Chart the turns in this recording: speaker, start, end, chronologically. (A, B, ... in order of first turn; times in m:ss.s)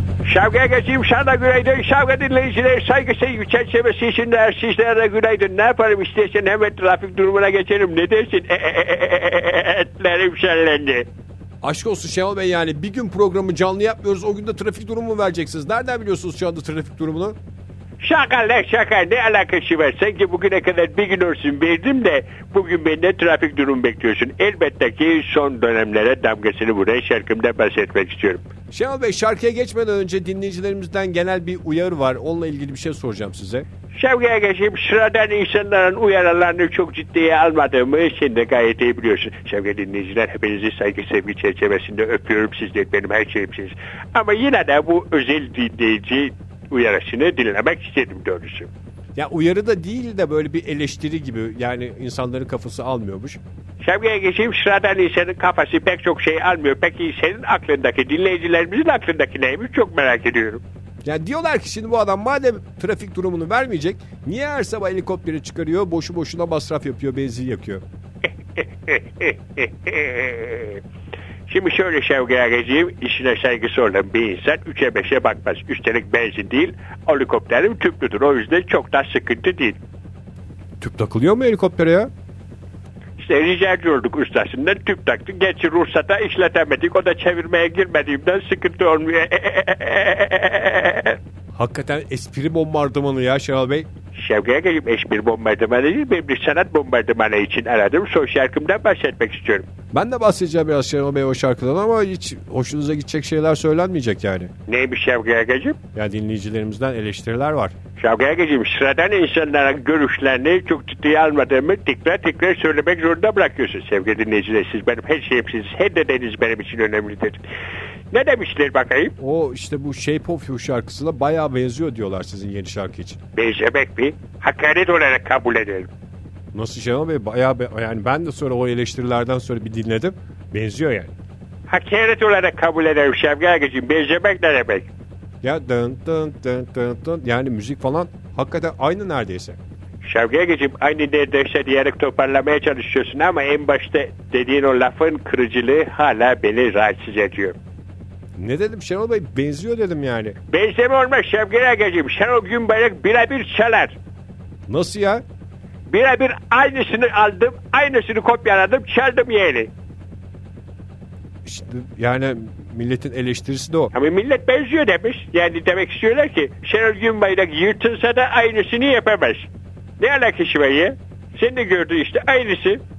0:00.2-0:11.0 A
0:11.6-0:17.4 B
0:18.0-0:28.4 A
0:28.7-0:33.6 B
0:33.9-0:48.7 A
0:49.2-0:53.4 B
0:53.8-1:00.6 A
1:01.0-1:07.8 B
1:08.5-1:10.8 A
1:11.5-1:19.8 A
1:20.8-1:22.1 B
1:23.2-1:31.2 A
1:31.5-1:33.9 B
1:34.1-1:39.7 A
1:39.9-1:44.5 B
1:44.7-1:45.8 A
1:45.9-1:47.7 B
1:48.0-1:57.4 A
1:58.1-1:59.1 A
1:59.2-2:03.2 B
2:03.4-2:05.9 A
2:06.5-2:11.1 B
2:11.7-2:14.9 A
2:15.4-2:19.6 B
2:20.0-2:27.6 A
2:28.4-2:30.4 B
2:30.5-2:33.9 A
2:34.7-2:35.2 B
2:35.9-2:39.7 A
2:41.4-2:43.9 B
2:43.9-2:49.5 A
2:50.0-2:52.8 A